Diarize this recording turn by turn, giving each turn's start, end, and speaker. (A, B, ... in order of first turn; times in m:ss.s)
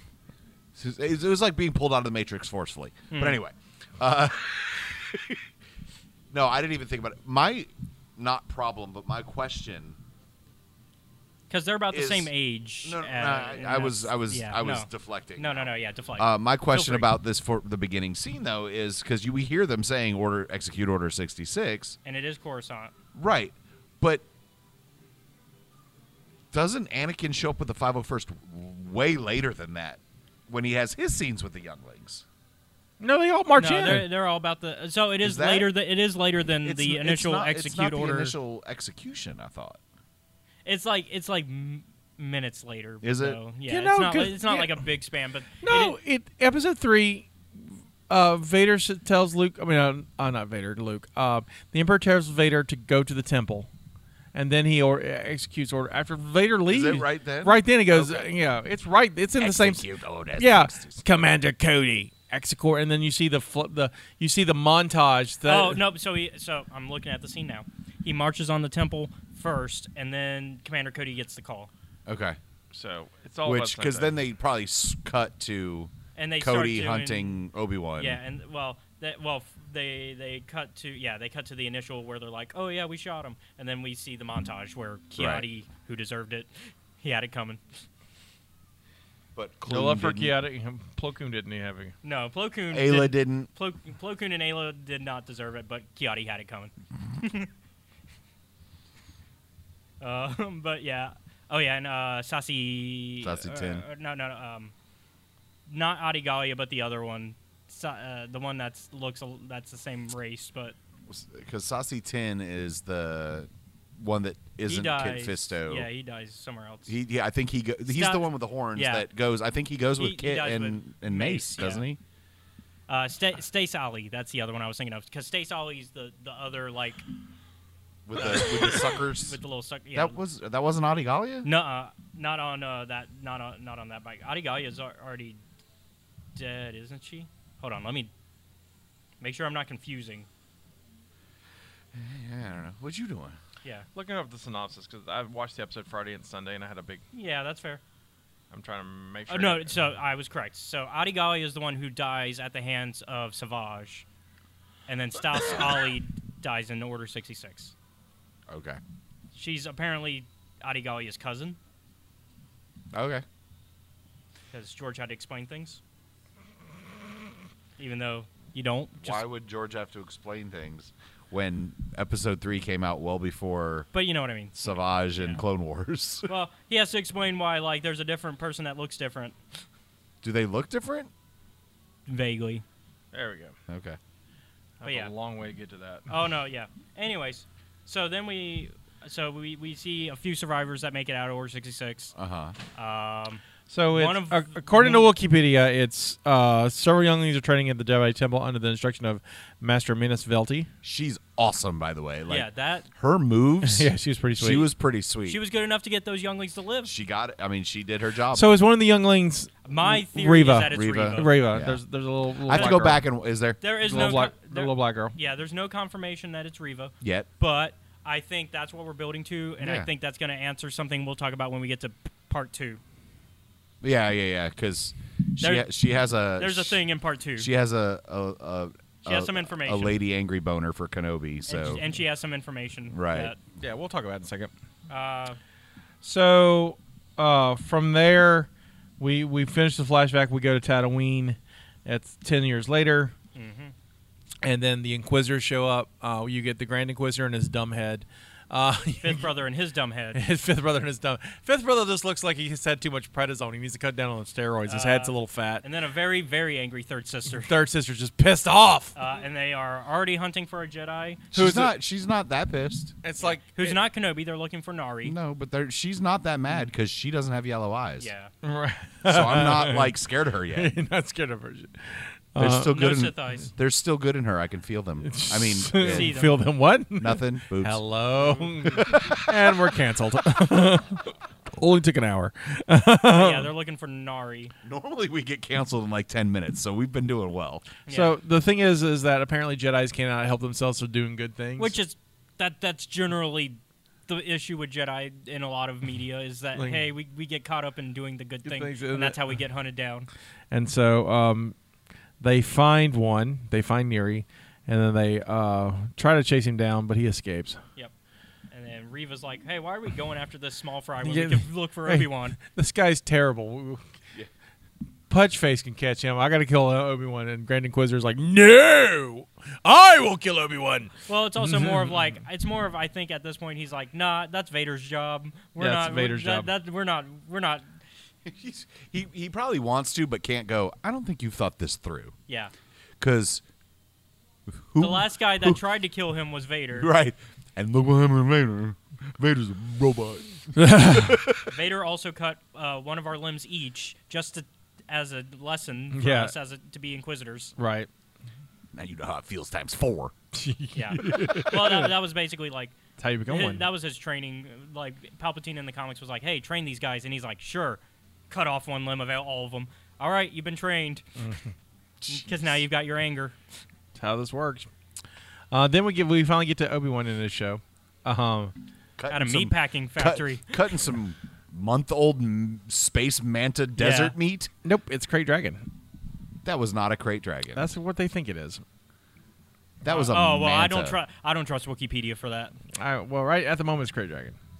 0:00.8-0:05.4 A
0:03.1-0:03.4 B
0:06.3-0:10.0 A
0:11.5-0:17.1 B
0:11.9-0:12.3 A
0:12.8-0:22.0 A
0:22.0-0:22.9 B
0:23.1-0:24.2 A
0:26.5-0:32.2 A
0:33.0-0:34.1 C
0:33.6-0:38.3 B
0:35.2-0:35.7 A
0:36.6-0:39.8 A
0:40.6-0:46.0 B
0:43.0-0:43.4 A
0:43.7-0:44.8 C
0:45.6-0:53.7 C
0:54.3-1:05.8 C
0:56.7-0:58.3 A
0:59.4-1:01.0 A
1:05.4-1:11.7 B
1:12.0-1:12.4 A
1:12.7-1:14.2 C
1:13.4-1:18.2 A
1:16.2-1:17.4 B
1:18.0-1:27.6 B
1:25.2-1:25.4 A
1:29.3-1:30.3 A
1:29.7-1:31.9 C
1:32.0-1:37.5 B
1:32.7-1:33.5 A
1:40.0-1:44.7 B
1:43.2-1:43.8 A
1:45.7-1:50.8 B
1:51.1-1:55.9 A
1:54.6-1:56.9 B
1:56.9-2:02.0 A
1:57.9-1:59.0 B
2:00.0-2:01.8 B
2:02.9-2:07.0 B
2:08.0-2:09.4 A
2:08.1-2:10.2 B
2:09.9-2:11.5 A
2:11.4-2:15.4 B
2:16.4-2:18.1 B
2:19.2-2:20.3 B
2:21.9-2:23.4 A
2:23.9-2:27.0 C
2:27.1-2:27.8 B
2:28.5-2:29.8 C
2:29.3-2:34.0 B
2:34.9-2:37.7 B
2:38.5-2:38.8 A
2:39.3-2:41.6 B
2:42.9-2:43.2 A
2:44.5-2:45.8 B
2:47.8-2:49.2 B
2:49.0-2:53.9 A
2:53.9-2:55.4 B
2:54.6-2:56.3 A
2:56.3-2:59.4 B
3:00.2-3:01.1 A
3:02.1-3:02.6 B
3:03.1-3:03.6 C
3:03.7-3:04.0 A
3:04.8-3:06.1 C
3:04.8-3:05.1 B
3:06.1-3:12.1 B
3:12.1-3:12.5 A
3:12.7-3:15.1 B
3:13.7-3:20.7 C
3:20.8-3:25.4 A
3:22.3-3:22.9 B
3:23.6-3:24.7 C
3:25.2-3:26.9 B
3:26.8-3:28.6 A
3:28.3-3:33.0 C
3:29.6-3:31.5 B
3:30.7-3:31.8 A
3:32.4-3:33.6 A
3:32.5-3:32.9 B
3:33.6-3:42.8 B
3:33.8-3:35.1 C
3:37.0-3:37.3 A
3:39.6-3:39.9 A
3:43.8-3:46.8 A
3:45.4-3:45.7 B
3:46.4-3:47.5 B
3:47.4-3:51.8 A
3:49.0-3:49.9 B
3:51.5-3:53.4 B
3:52.9-3:53.3 A
3:53.6-3:54.5 C
3:54.9-3:55.4 B
3:56.0-4:03.1 C
4:03.3-4:03.7 B
4:04.4-4:09.3 C
4:09.0-4:10.2 B
4:10.1-4:15.6 C
4:14.7-4:17.5 B
4:17.4-4:18.9 C
4:18.9-4:21.3 B
4:21.3-4:23.0 A
4:21.3-4:21.7 C
4:23.0-4:23.8 C
4:23.2-4:25.1 B
4:25.0-4:28.1 A
4:28.0-4:28.3 B
4:28.4-4:29.9 C
4:29.0-4:30.7 A
4:30.5-4:32.7 C
4:32.4-4:36.2 A
4:32.6-4:33.5 B
4:35.0-4:43.5 C
4:35.7-4:36.4 B
4:37.0-4:37.8 A
4:38.8-4:39.6 A
4:43.1-4:44.5 B
4:44.6-4:47.6 A
4:47.9-4:48.1 B
4:47.9-4:51.8 C
4:51.6-5:00.1 B
4:56.6-4:56.8 C
4:58.4-4:59.2 C
5:00.5-5:01.6 C
5:02.2-5:07.6 C
5:08.5-5:12.4 B
5:11.0-5:13.9 C
5:15.1-5:21.9 C
5:21.1-5:27.6 B
5:25.6-5:26.5 C
5:28.2-5:32.1 A
5:33.0-5:33.4 A
5:34.7-5:35.6 A
5:34.8-5:36.9 B
5:36.7-5:41.6 A
5:40.5-5:41.2 C
5:41.4-5:47.5 B
5:45.9-5:46.3 C
5:47.6-5:47.9 C
5:48.7-5:50.1 A
5:50.3-5:51.9 C
5:50.7-5:52.8 B
5:53.0-5:53.6 C
5:53.3-6:01.0 B
6:01.2-6:01.5 C
6:02.0-6:02.6 A
6:02.1-6:03.4 B
6:04.0-6:04.7 C
6:05.5-6:08.5 C
6:09.0-6:14.5 A
6:09.1-6:10.6 B
6:13.8-6:14.1 B
6:14.6-6:15.7 C
6:16.4-6:17.6 A
6:17.5-6:18.6 C
6:19.8-6:21.0 A
6:19.9-6:22.5 B
6:22.8-6:24.4 C